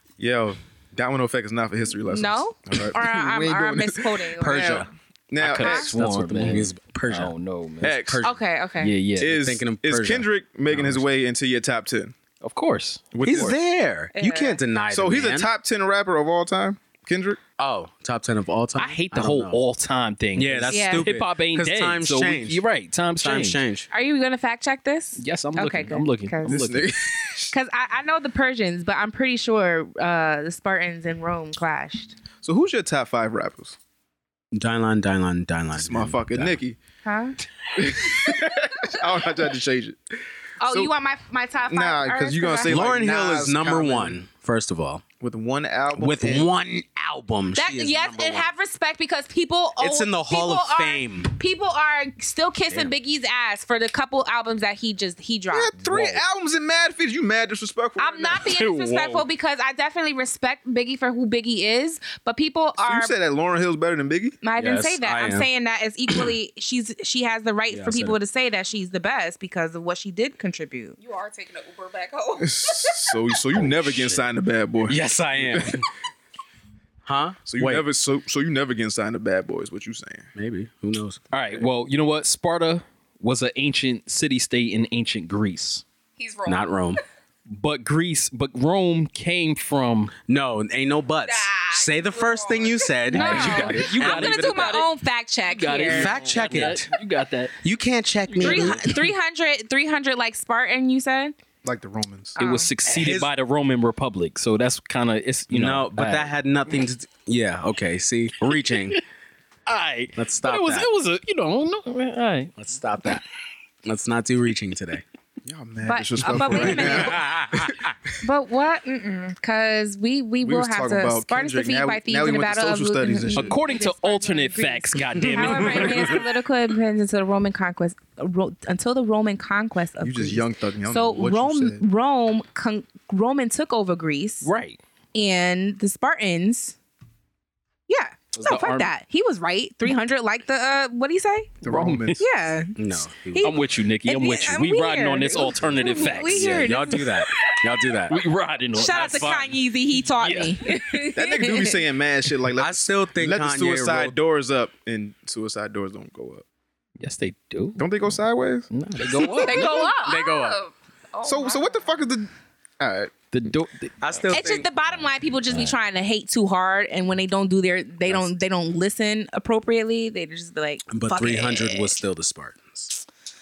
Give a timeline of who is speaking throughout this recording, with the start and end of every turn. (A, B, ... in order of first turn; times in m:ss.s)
0:00.2-0:05.9 A
0:02.1-0:04.9 B
0:04.4-0:04.9 C
0:05.4-0:08.0 D
0:05.6-0:07.3 C
0:07.8-0:08.2 A
0:07.9-0:08.4 C
0:08.2-0:08.9 B
0:08.8-0:09.4 D
0:09.2-0:12.2 A
0:09.2-0:11.0 C
0:12.4-0:13.1 D
0:13.1-0:13.6 A
0:13.2-0:15.5 C
0:14.1-0:14.6 B
0:14.9-0:17.4 A
0:17.6-0:19.6 C
0:18.8-0:23.6 D
0:20.4-0:22.6 C
0:20.7-0:21.1 B
0:23.2-0:23.9 C
0:23.9-0:26.6 B
0:25.2-0:26.9 D
0:26.4-0:27.5 A
0:27.5-0:32.2 B
0:32.4-0:33.8 A
0:34.5-0:36.6 C
0:35.7-0:36.8 A
0:37.0-0:37.4 B
0:37.7-0:40.0 A
0:40.6-0:42.9 B
0:40.6-0:40.9 A
0:41.7-0:44.2 A
0:42.7-0:45.0 C
0:45.2-0:46.5 A
0:45.9-0:48.5 C
0:47.6-0:55.8 B
0:49.8-0:51.3 C
0:55.5-0:58.5 A
0:58.0-1:03.1 B
0:58.5-0:59.2 D
1:02.8-1:04.4 A
1:04.4-1:11.0 B
1:04.6-1:05.5 C
1:07.7-1:08.2 C
1:11.0-1:13.2 E
1:12.4-1:15.8 A
1:13.8-1:14.2 C
1:14.9-1:15.8 C
1:17.0-1:17.8 C
1:17.5-1:20.3 A
1:20.4-1:21.2 C
1:21.3-1:25.8 D
1:26.2-1:27.0 E
1:26.4-1:27.0 C
1:27.5-1:30.1 D
1:30.3-1:34.8 C
1:31.2-1:33.8 E
1:33.1-1:36.1 B
1:33.1-1:34.9 D
1:35.4-1:37.5 D
1:35.9-1:36.9 C
1:37.6-1:38.8 C
1:38.3-1:39.0 D
1:38.4-1:41.4 B
1:41.6-1:42.4 A
1:42.4-1:42.7 B
1:42.4-1:46.3 D
1:42.8-1:43.3 C
1:45.5-1:49.0 C
1:48.5-1:49.0 D
1:49.7-1:52.6 D
1:50.2-1:50.9 C
1:52.6-1:53.2 C
1:53.8-1:55.0 C
1:55.4-1:57.9 A
1:55.8-1:57.2 B
1:56.2-1:57.9 C
1:58.2-2:14.5 B
2:00.4-2:03.6 A
2:03.4-2:06.2 D
2:10.0-2:11.8 A
2:14.4-2:14.8 D
2:15.1-2:16.8 B
2:17.9-2:21.5 B
2:18.3-2:18.9 D
2:21.6-2:22.3 A
2:21.6-2:22.2 D
2:22.2-2:27.2 B
2:22.8-2:23.6 C
2:23.4-2:27.2 D
2:25.7-2:28.2 C
2:28.1-2:29.6 D
2:28.7-2:31.8 B
2:28.9-2:29.4 C
2:30.2-2:30.6 D
2:31.1-2:36.4 A
2:32.6-2:34.2 C
2:37.0-2:38.0 D
2:37.8-2:38.7 A
2:38.7-2:40.0 D
2:39.3-2:41.9 E
2:39.5-2:40.6 C
2:41.2-2:43.1 A
2:43.3-2:44.4 D
2:44.0-2:44.7 C
2:44.3-2:52.0 B
2:50.9-2:53.0 C